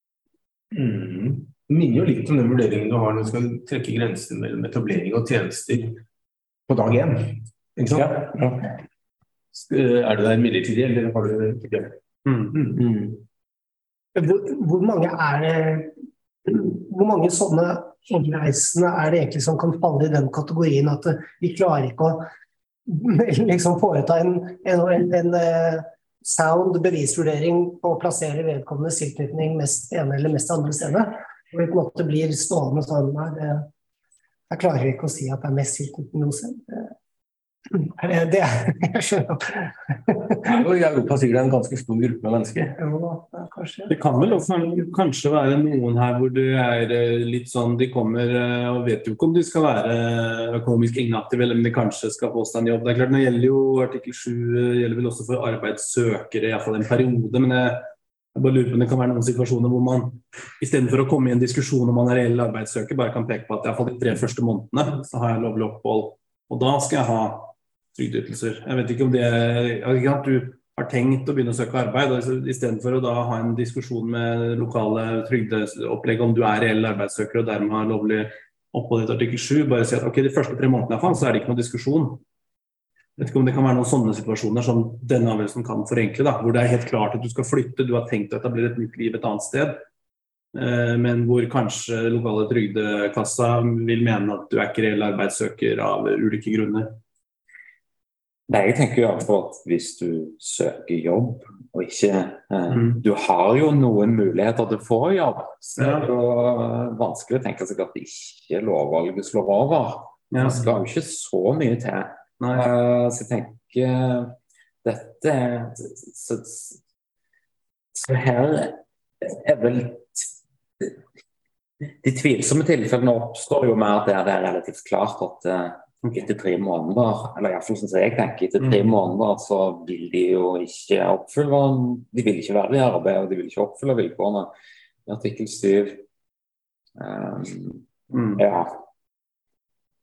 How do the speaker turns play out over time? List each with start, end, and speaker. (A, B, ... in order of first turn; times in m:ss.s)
0:00.7-0:06.0 A
0:06.7-0:08.3 A
0:07.9-0:08.7 B
0:09.5-0:12.0 A
0:12.3-0:12.5 C
0:12.5-0:12.8 A
0:12.8-0:13.2 B
0:14.1-0:22.3 D
0:22.9-0:33.7 D
0:34.5-0:36.9 D
0:37.7-0:40.4 D
0:40.4-0:42.8 B
0:42.8-0:43.9 D
0:43.9-1:22.2 C
1:23.2-1:29.8 C
1:30.5-1:37.0 C
1:38.5-1:56.8 E
1:42.7-1:43.0 C
1:45.8-1:46.0 C
1:50.3-1:50.6 C
1:52.4-1:52.7 C
1:57.9-2:00.3 E
2:02.0-2:14.5 E
2:15.1-2:16.0 E
2:17.0-2:18.8 E
2:18.1-2:18.4 C